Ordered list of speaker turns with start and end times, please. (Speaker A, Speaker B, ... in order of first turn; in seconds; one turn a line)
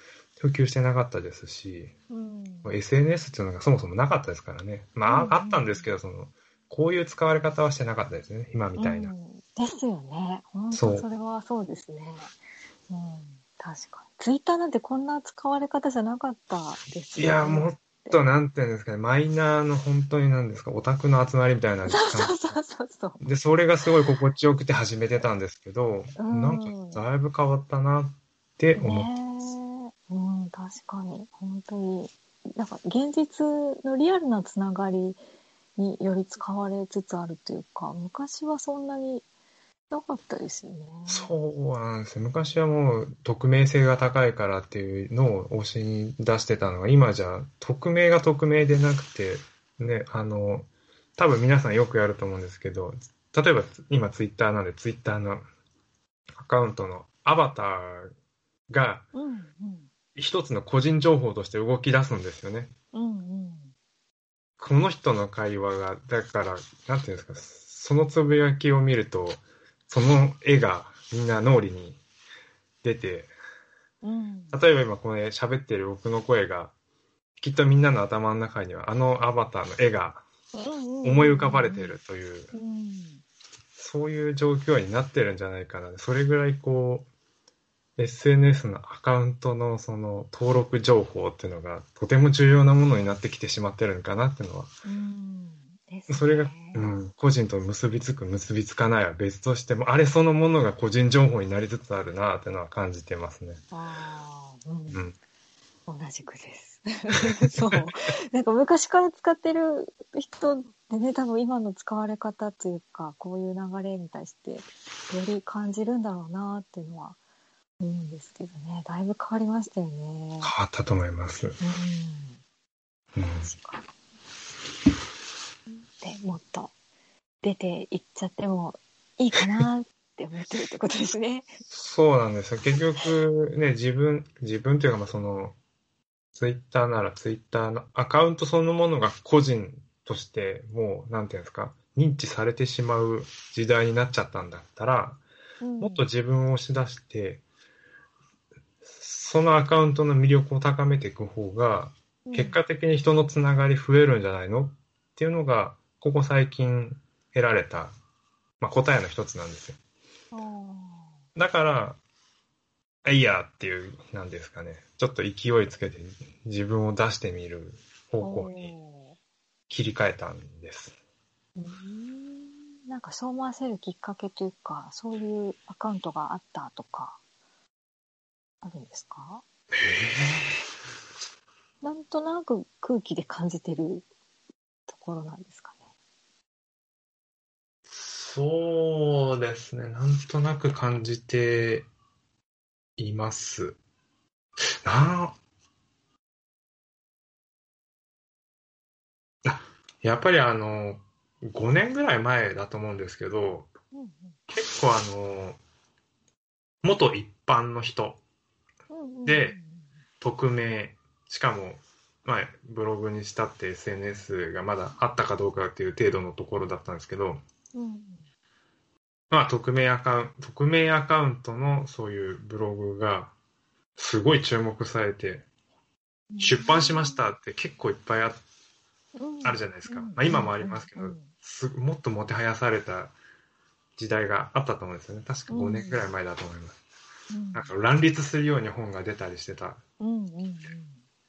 Speaker A: 0.4-1.9
Speaker B: 2.1-2.8
Speaker A: 2.6-9.1
Speaker B: 5.1-5.9
Speaker B: 8.8-12.3
Speaker A: 10.7-11.1
Speaker B: 12.9-18.2
Speaker A: 17.2-22.6
Speaker B: 21.9-23.2
Speaker A: 23.2-29.1
Speaker B: 26.2-27.0
Speaker B: 28.8-35.2
Speaker B: 35.8-39.3
Speaker B: 39.9-41.3
Speaker A: 41.1-55.4
Speaker A: 56.4-58.1
Speaker A: 58.7-59.1
Speaker B: 59.1-59.9
Speaker A: 60.2-62.7
Speaker B: 62.9-63.7
Speaker A: 64.6-72.0
Speaker A: 72.8-73.3
Speaker B: 74.0-74.6
Speaker A: 74.5-76.7
Speaker A: 77.4-80.2
Speaker B: 80.5-81.9
Speaker A: 81.0-82.5
Speaker B: 82.5-83.2
Speaker A: 83.8-87.1
Speaker A: 88.0-94.7
Speaker B: 94.8-96.9
Speaker A: 96.1-103.6
Speaker B: 103.7-105.0
Speaker B: 105.9-117.2
Speaker A: 107.4-107.8
Speaker B: 117.8-120.5
Speaker A: 120.4-121.6
Speaker B: 121.6-122.4
Speaker A: 123.2-123.5
Speaker B: 123.4-123.9
Speaker B: 126.0-126.7
Speaker B: 127.4-131.5
Speaker A: 131.7-135.6
Speaker A: 136.3-145.2
Speaker B: 145.6-146.1
Speaker A: 145.8-147.4
Speaker A: 148.8-157.9
Speaker B: 152.3-152.6
Speaker A: 158.6-159.8
Speaker B: 160.3-161.2
Speaker A: 161.4-162.0
Speaker A: 163.0-168.7
Speaker B: 168.2-169.2
Speaker A: 169.7-171.0
Speaker B: 171.6-177.2
Speaker B: 178.6-179.4
Speaker A: 179.7-180.7
Speaker B: 181.8-184.1
Speaker B: 184.9-185.8
Speaker A: 187.9-191.9
Speaker A: 193.0-193.8
Speaker A: 194.8-195.4
Speaker A: 199.4-203.7
Speaker B: 203.9-204.4
Speaker A: 204.5-205.6
Speaker A: 206.8-208.2
Speaker B: 208.9-209.9
Speaker A: 209.3-209.6
Speaker A: 210.2-217.4
Speaker B: 217.7-218.2
Speaker A: 219.3-223.3
Speaker A: 224.0-225.4
Speaker B: 226.3-227.2
Speaker A: 226.4-228.4
Speaker B: 229.2-231.3
Speaker A: 229.4-233.1
Speaker A: 234.0-236.8
Speaker B: 235.5-236.0
Speaker B: 237.3-237.7
Speaker A: 237.5-239.8
Speaker B: 240.0-241.0